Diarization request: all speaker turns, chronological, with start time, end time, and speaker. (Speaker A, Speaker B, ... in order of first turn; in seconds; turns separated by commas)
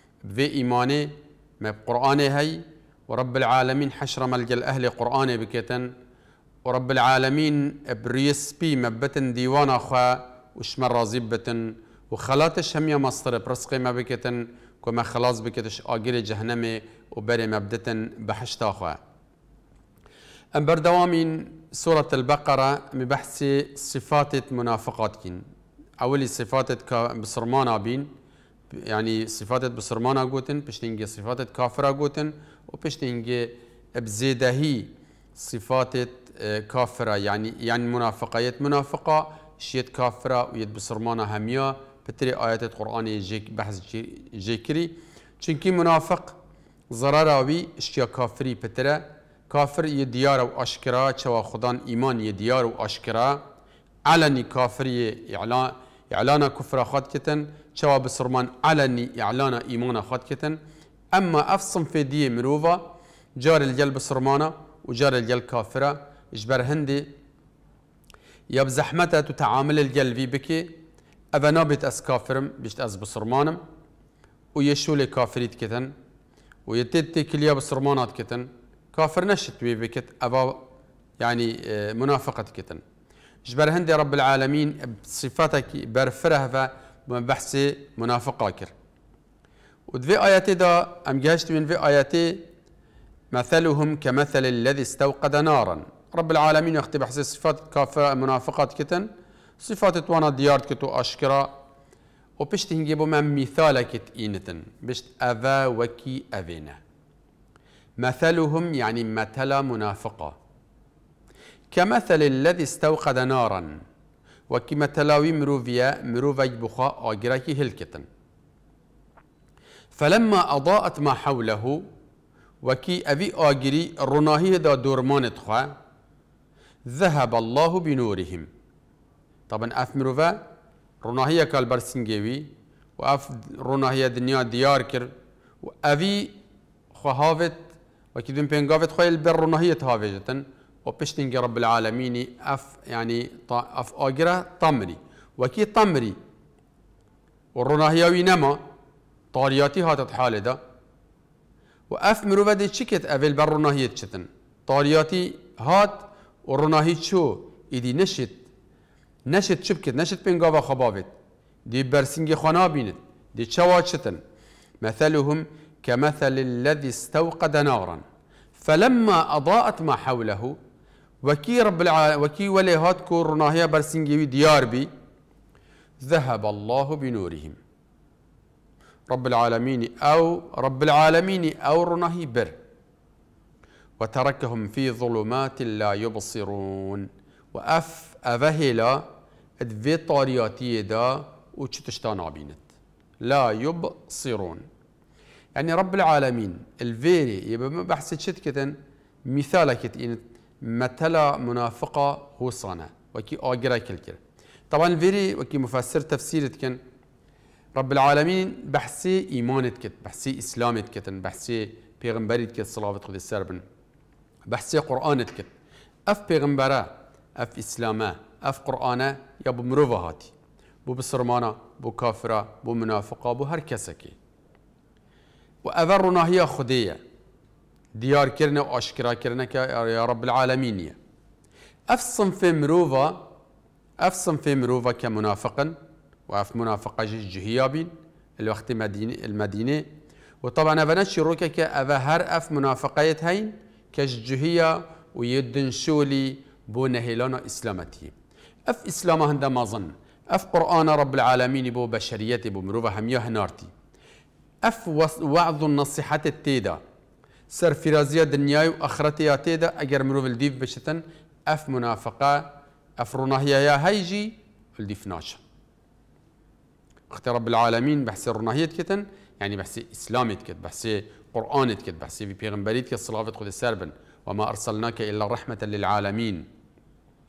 Speaker A: 0.2-5.9, Speaker A: 6.7-19.0, Speaker A: 20.5-25.4, Speaker A: 26.0-28.1, Speaker A: 28.7-46.4, Speaker A: 46.9-53.4, Speaker A: 54.0-60.6, Speaker A: 61.1-67.1, Speaker A: 68.5-70.8, Speaker A: 71.3-73.6, Speaker A: 74.5-75.9, Speaker A: 76.7-80.6, Speaker A: 81.2-82.8, Speaker A: 83.5-88.7, Speaker A: 89.9-92.5, Speaker A: 93.3-99.1, Speaker A: 99.6-101.5, Speaker A: 102.4-106.8, Speaker A: 108.0-110.3, Speaker A: 111.7-113.8, Speaker A: 114.5-118.0, Speaker A: 119.9-121.8, Speaker A: 122.6-125.7, Speaker A: 126.8-128.5, Speaker A: 129.5-130.5, Speaker A: 131.0-135.1, Speaker A: 135.6-136.3, Speaker A: 136.9-146.2, Speaker A: 147.5-148.6, Speaker A: 149.3-150.6, Speaker A: 151.9-158.4, Speaker A: 159.3-161.1, Speaker A: 161.7-164.2, Speaker A: 164.8-168.0, Speaker A: 168.6-170.6, Speaker A: 171.2-174.9, Speaker A: 176.0-177.6, Speaker A: 179.1-182.6, Speaker A: 184.0-189.1, Speaker A: 189.6-192.6, Speaker A: 193.2-194.6, Speaker A: 195.5-198.7, Speaker A: 199.2-204.2, Speaker A: 204.7-206.8, Speaker A: 207.7-213.6, Speaker A: 214.5-215.5, Speaker A: 216.1-220.3, Speaker A: 220.8-224.2, Speaker A: 225.6-227.0, Speaker A: 227.9-231.0, Speaker A: 231.9-233.2, Speaker A: 234.0-235.8, Speaker A: 236.3-239.8, Speaker A: 240.4-248.1, Speaker A: 248.7-253.7, Speaker A: 254.6-256.8, Speaker A: 257.5-265.4, Speaker A: 267.1-276.4